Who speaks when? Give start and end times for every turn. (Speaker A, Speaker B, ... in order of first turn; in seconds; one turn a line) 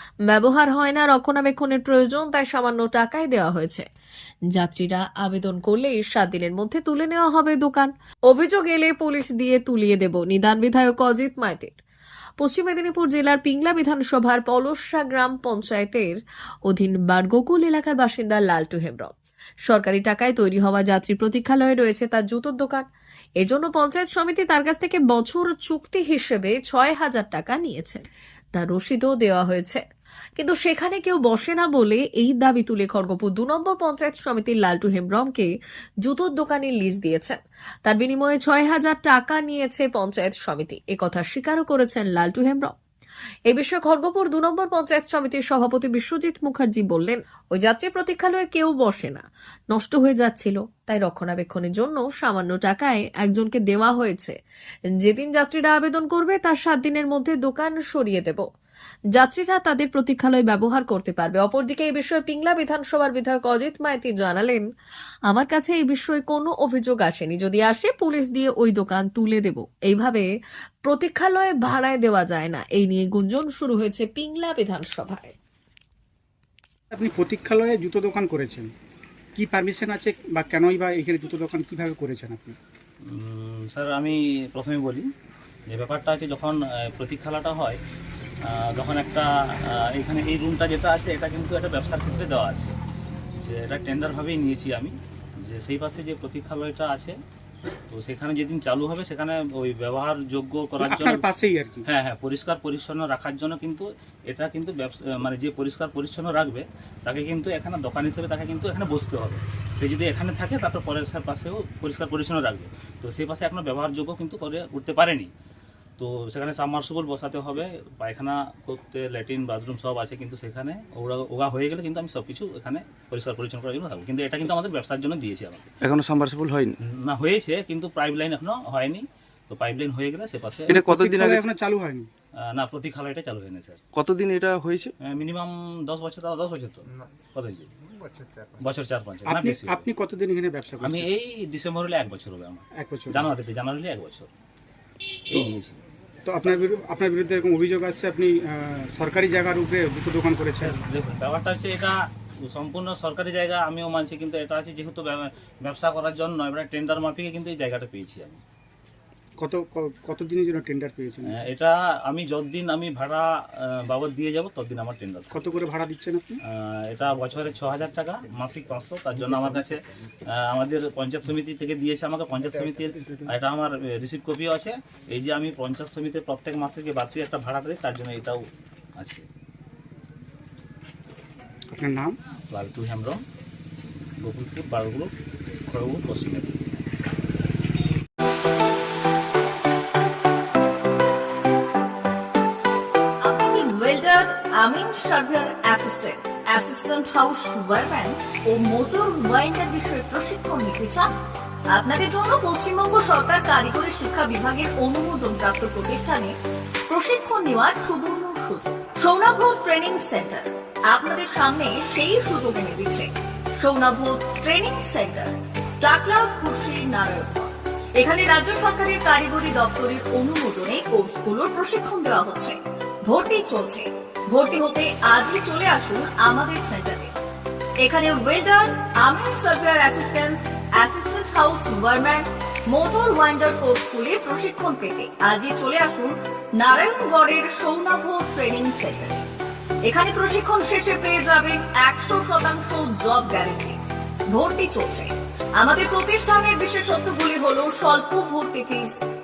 Speaker A: 0.3-3.9
Speaker A: 4.5-11.8
Speaker A: 12.4-16.1
Speaker A: 16.7-19.1
Speaker A: 19.7-22.9
Speaker A: 23.4-28.0
Speaker A: 28.6-29.8
Speaker A: 30.4-35.5
Speaker A: 36.0-42.8
Speaker A: 43.5-54.4
Speaker A: 55.0-58.5
Speaker A: 59.2-64.6
Speaker A: 65.3-70.3
Speaker A: 70.8-75.3
Speaker B: 76.9-78.7
Speaker B: 79.3-82.6
Speaker C: 83.1-85.1
Speaker C: 85.7-87.8
Speaker C: 88.5-92.8
Speaker C: 93.4-97.2
Speaker C: 97.9-101.2
Speaker B: 100.8-101.9
Speaker C: 101.8-115.3
Speaker C: 116.0-125.7
Speaker D: 125.8-126.8
Speaker C: 126.8-130.8
Speaker D: 130.7-131.4
Speaker B: 130.8-132.1
Speaker C: 132.4-133.8
Speaker D: 133.9-134.9
Speaker C: 135.0-137.7
Speaker C: 138.6-139.9
Speaker B: 139.2-141.1
Speaker C: 140.8-144.3
Speaker B: 142.8-143.3
Speaker C: 145.3-145.8
Speaker B: 146.2-150.8
Speaker C: 150.6-158.4
Speaker B: 159.4-161.4
Speaker C: 161.3-165.4
Speaker B: 165.3-166.4
Speaker C: 166.5-178.4
Speaker B: 172.9-173.3
Speaker C: 179.0-179.3
Speaker B: 181.8-182.2
Speaker C: 182.5-183.2
Speaker C: 184.2-185.1
Speaker C: 185.7-186.9
Speaker E: 193.2-201.2
Speaker E: 201.7-206.4
Speaker E: 206.9-227.2
Speaker E: 227.8-239.3
Speaker E: 239.8-249.0